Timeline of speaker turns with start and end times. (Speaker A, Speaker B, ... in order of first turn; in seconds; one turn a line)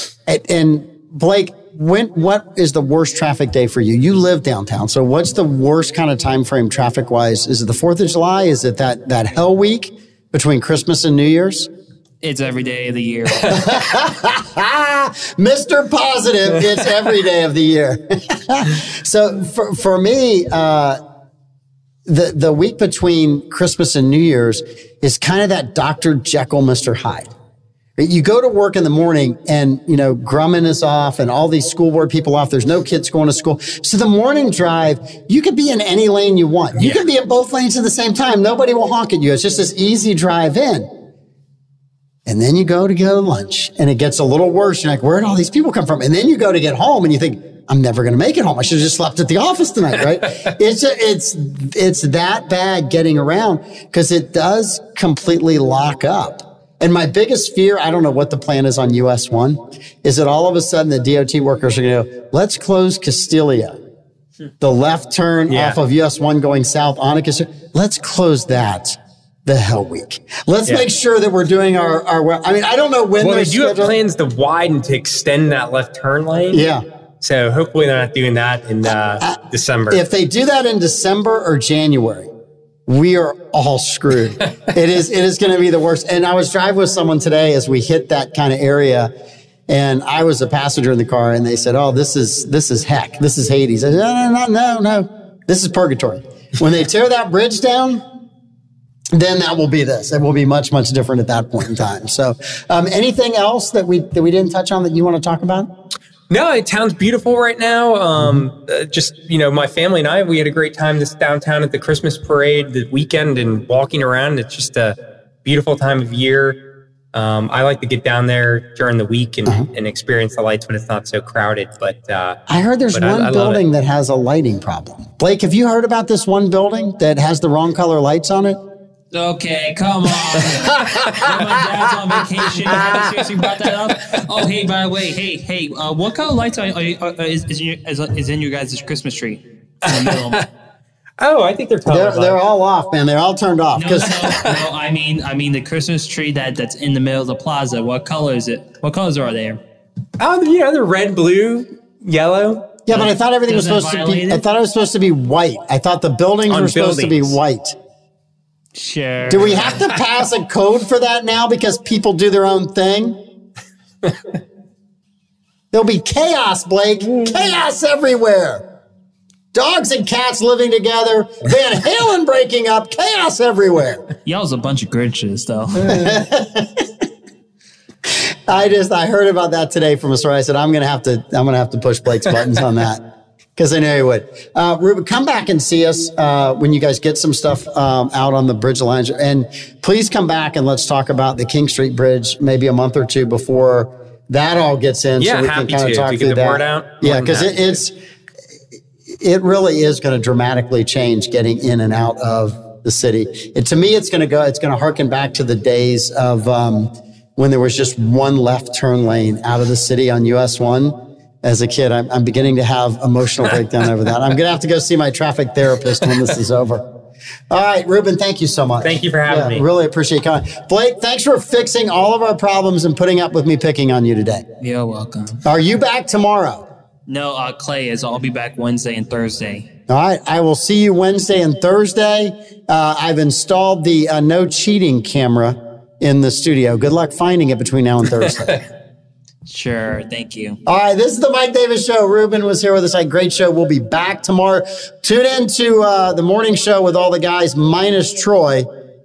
Speaker A: 0.3-11.7
Speaker B: 12.2-13.9
Speaker A: 13.5-21.0
Speaker A: 22.1-27.3
Speaker A: 28.0-40.9
Speaker C: 36.8-37.0
Speaker A: 42.3-63.8
Speaker A: 64.6-74.0
Speaker C: 65.5-65.8
Speaker C: 73.2-76.7
Speaker A: 76.5-76.8
Speaker C: 77.2-80.0
Speaker A: 79.9-82.3
Speaker A: 82.9-89.1
Speaker A: 89.7-98.0
Speaker A: 99.1-105.7
Speaker C: 106.3-116.6
Speaker C: 117.1-122.4
Speaker A: 122.5-128.6
Speaker C: 122.9-123.6
Speaker B: 129.1-140.4
Speaker A: 130.3-133.1
Speaker C: 139.8-140.5
Speaker C: 141.2-142.4
Speaker A: 141.9-144.5
Speaker B: 143.8-149.6
Speaker C: 150.2-152.7
Speaker A: 152.9-157.8
Speaker B: 152.9-154.4
Speaker C: 156.5-157.4
Speaker B: 158.8-160.0
Speaker A: 159.3-163.2
Speaker A: 165.7-168.6
Speaker A: 169.5-174.0
Speaker B: 174.2-176.1
Speaker A: 175.9-176.9
Speaker A: 178.1-183.0
Speaker A: 183.6-197.9
Speaker C: 195.2-197.8
Speaker A: 199.1-216.8
Speaker A: 217.5-224.4
Speaker C: 218.8-219.6
Speaker B: 224.6-225.4
Speaker A: 225.4-226.6
Speaker B: 227.1-229.7
Speaker A: 229.9-238.6
Speaker B: 239.5-240.6
Speaker A: 240.7-248.7